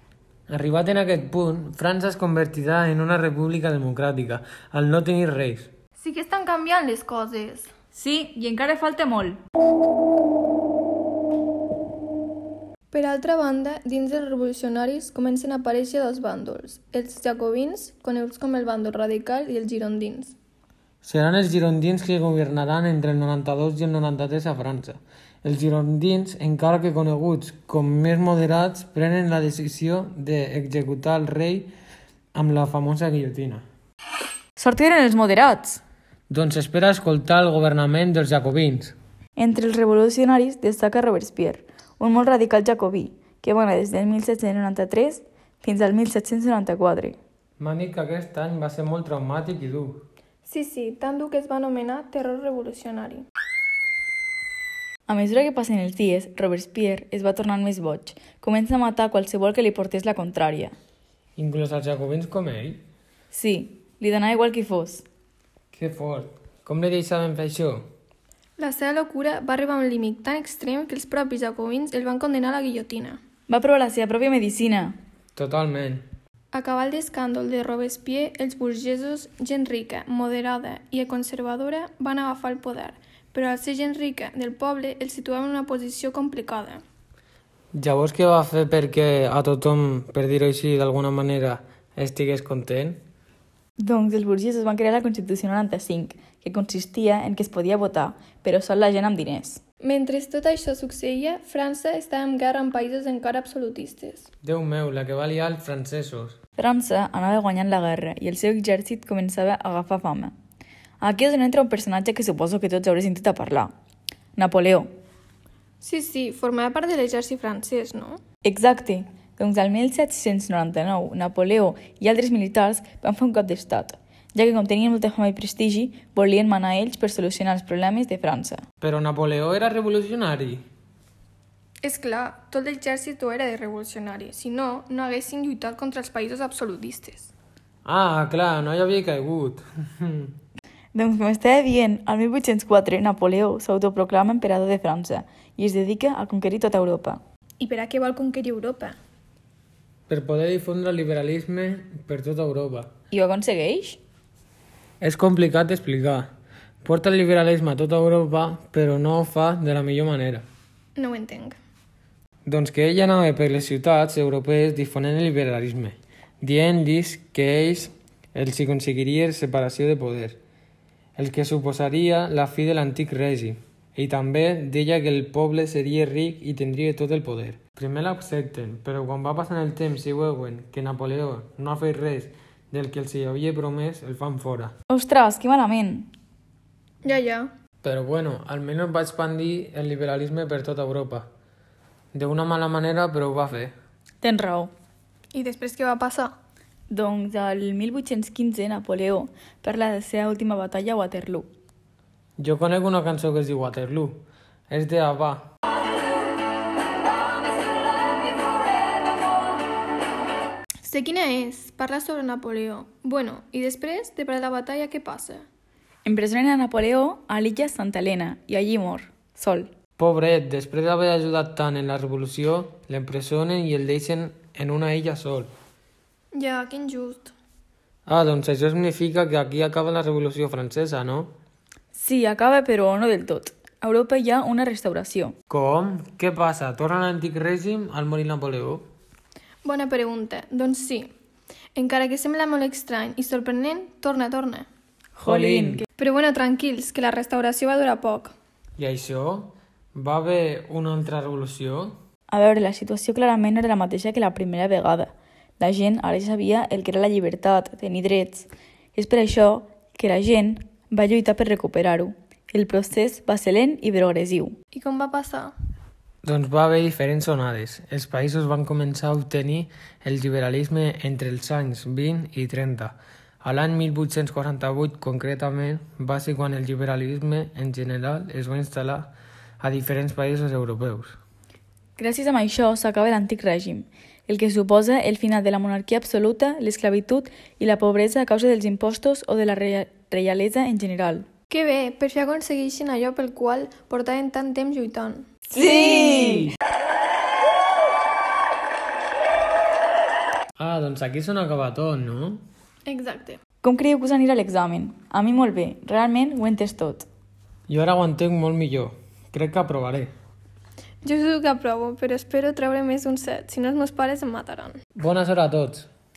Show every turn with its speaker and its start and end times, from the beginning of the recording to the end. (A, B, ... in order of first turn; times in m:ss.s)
0:00.5-0:05.7 A
0:06.0-0:07.7 B
0:07.9-0:09.4 C
0:12.9-0:20.3 B
0:21.0-0:31.7 A
0:32.3-0:33.6 A
0:34.6-0:35.8 C
0:36.3-0:38.9 A
0:39.4-0:47.2 C
0:47.6-0:50.0 A
0:50.5-0:53.2 B
0:55.1-1:00.7 C
1:01.4-1:02.8 A
1:03.3-1:05.0 C
1:05.7-1:07.9 A
1:08.6-1:13.2 B
1:13.5-1:15.0 C
1:15.3-1:16.1 A
1:16.5-1:26.8 B
1:27.7-1:33.0 A
1:33.8-1:39.6 C
1:39.8-1:44.3 B
1:44.4-1:46.4 A
1:46.6-1:50.3 C
1:51.0-1:53.7 C
1:54.4-1:54.9 C
1:55.8-1:58.2 B
1:58.4-2:08.6 C
2:08.8-2:10.6 A
2:11.8-2:17.3 B
2:17.8-2:20.3 A
2:20.9-2:27.2 C
2:27.6-2:29.0 B
2:30.1-2:32.9 A
2:33.1-2:34.0 C
2:35.0-2:36.3 A
2:36.8-2:40.4 A
2:41.0-2:41.6 B
2:42.4-2:50.4 A
2:51.2-3:04.7 A
3:04.9-3:06.1 C
3:07.0-3:07.5 B
3:07.8-3:11.3 A
3:12.1-3:13.7 A
3:14.2-3:14.7 C
3:15.3-3:16.3 B
3:16.9-3:21.5 C
3:22.4-3:25.5 A
3:30.8-3:35.4 B
3:36.0-3:39.7 C
3:40.0-3:45.5 A
3:46.3-3:47.3 B
3:48.0-3:51.3 A
3:51.9-3:55.4 C
3:55.5-3:58.8 A
3:59.6-4:01.1 B
4:01.8-4:04.7 B
4:05.2-4:05.8 A
4:05.2-4:05.8 C
4:06.0-4:08.3 B
4:08.8-4:12.0 A
4:12.3-4:24.6 C
4:24.7-4:25.5 B
4:26.2-4:41.2 A
4:42.0-4:51.3 C
4:51.5-4:55.6 B
4:55.5-4:56.5 C
5:00.6-5:02.4 A
5:02.8-5:03.4 B
5:03.6-5:07.1 C
5:07.7-5:10.1 A
5:11.0-5:14.8 B
5:15.0-5:15.9 A